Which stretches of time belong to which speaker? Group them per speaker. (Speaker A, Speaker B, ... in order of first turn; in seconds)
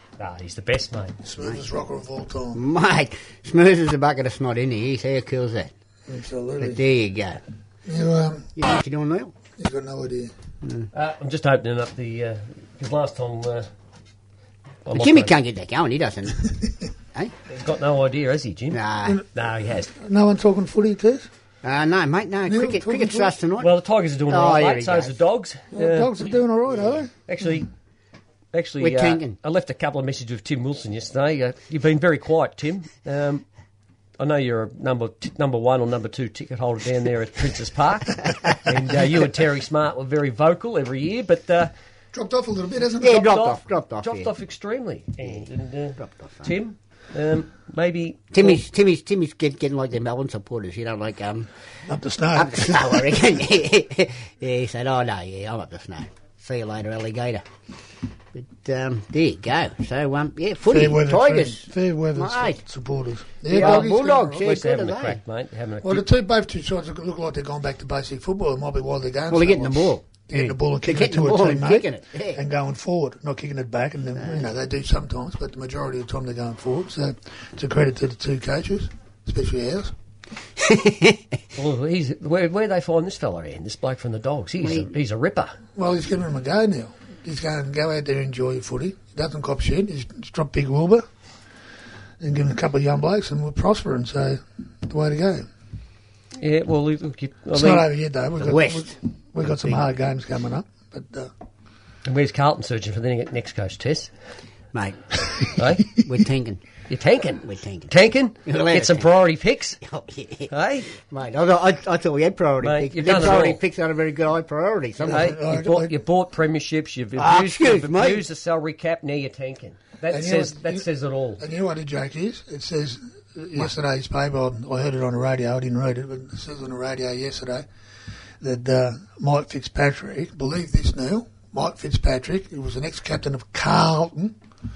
Speaker A: 0.2-1.2, 10.9-13.7, 14.8-15.3, 17.5-18.8, 19.3-19.9, 23.6-26.1, 27.3-27.7, 28.5-33.4, 34.2-41.7, 43.1-48.6, 63.5-66.1, 81.6-85.6, 96.4-97.9, 102.1-104.1, 105.6-106.0, 106.9-109.8, 110.5-110.9, 112.6-113.6, 115.1-121.4
Speaker B: 1.2-2.6, 6.1-6.8, 7.9-8.7, 9.6-10.3, 19.9-21.3, 22.5-23.3, 25.7-27.1, 42.1-43.3, 51.9-53.3, 60.6-64.5, 65.8-79.9, 85.8-91.1, 92.2-95.5, 97.5-101.3, 115.0-116.0, 120.1-120.9, 121.4-127.7, 128.4-134.4
Speaker C: 2.5-5.7, 6.6-7.4, 8.6-9.3, 10.6-10.9, 14.9-16.6, 18.7-19.2, 21.6-23.7, 24.3-25.1, 28.8-29.4, 43.0-44.3, 45.2-46.5, 48.3-51.5, 52.4-57.5, 58.3-62.6, 63.5-65.2, 69.3-72.4, 80.6-81.2, 84.6-84.9, 98.4-99.8, 104.7-106.6, 107.4-107.9, 108.5-109.1, 109.8-115.4, 117.2-118.2